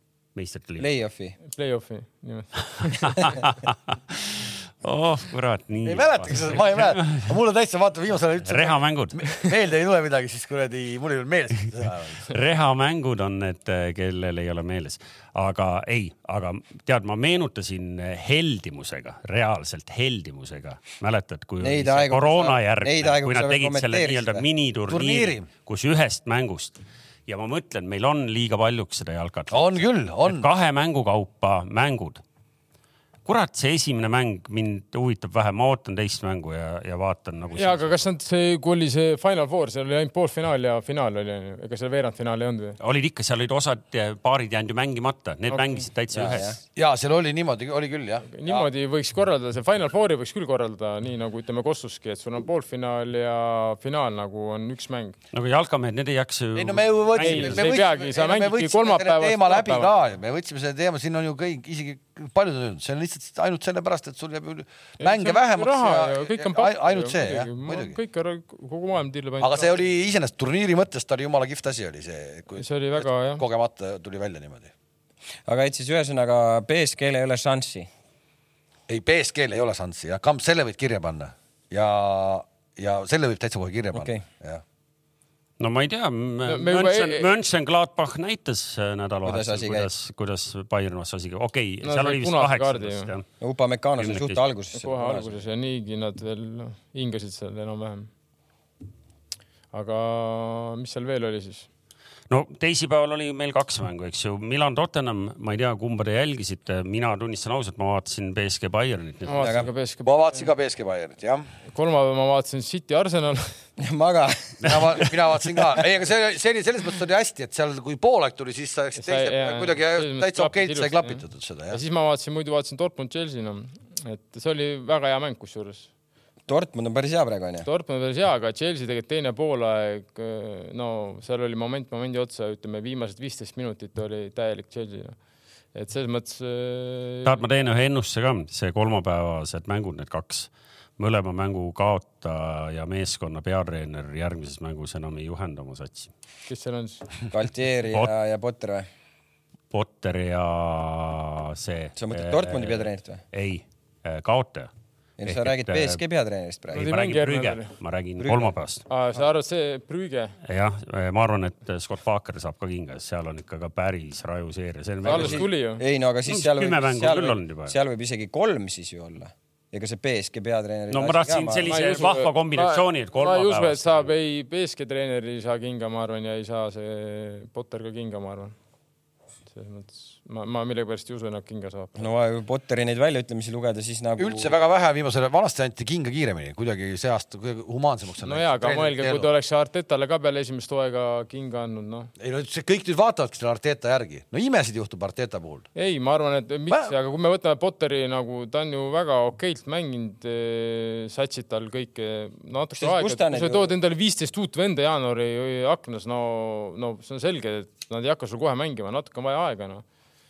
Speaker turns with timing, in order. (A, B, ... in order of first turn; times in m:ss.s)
0:00.3-0:00.9 A
0:00.8-0:01.4 B
0:01.4-0:03.4 C
0:02.9-0:07.3 A
0:05.8-0:12.3 D
0:08.4-0:09.3 A
0:12.2-0:29.7 A
0:21.6-0:24.4 B
0:24.9-0:25.5 D
0:29.5-0:30.5 D
0:30.2-0:32.2 A
0:33.2-0:37.9 A
0:37.6-0:42.8 C
0:42.8-0:46.6 A
0:46.1-0:46.6 B
0:46.8-0:48.7 D
0:48.3-0:55.2 C
0:55.3-0:57.8 A
0:56.5-1:08.0 D
0:57.2-0:59.9 C
1:05.0-1:09.7 C
1:09.4-1:14.7 D
1:12.5-1:13.4 C
1:15.4-1:17.9 B
1:18.9-1:24.6 D
1:23.9-1:24.2 B
1:25.6-1:33.2 A
1:26.4-1:27.3 C
1:29.2-1:29.9 B
1:31.8-1:33.1 C
1:33.4-1:35.4 B
1:34.0-1:34.4 A
1:34.7-1:38.1 C
1:39.7-1:41.7 C
1:42.3-1:49.6 A
1:49.2-1:50.5 C
1:49.3-1:49.7 B
1:50.0-1:51.5 D
1:51.7-1:53.6 C
1:53.8-1:55.1 B
1:54.6-2:01.8 D
1:59.0-2:05.9 C
2:06.5-2:07.7 B
2:07.6-2:15.2 C
2:15.7-2:17.4 C
2:17.2-2:26.1 A
2:26.5-2:27.1 C
2:27.3-2:28.8 B
2:29.7-2:34.7 A
2:32.0-2:33.2 B
2:35.2-2:36.9 B
2:35.2-2:36.0 A
2:36.7-2:37.7 C
2:36.7-2:38.8 A
2:38.2-2:38.5 B
2:38.9-2:40.4 C
2:40.4-2:45.5 A
2:45.0-2:51.8 B
2:45.0-2:45.8 C
2:46.2-2:47.7 A
2:50.9-2:54.1 A
2:51.6-2:58.5 C
2:59.5-3:02.1 C
3:02.0-3:04.5 B
3:04.2-3:09.3 D
3:08.2-3:12.1 C
3:12.2-3:15.6 D
3:15.7-3:29.8 C
3:22.8-3:23.7 B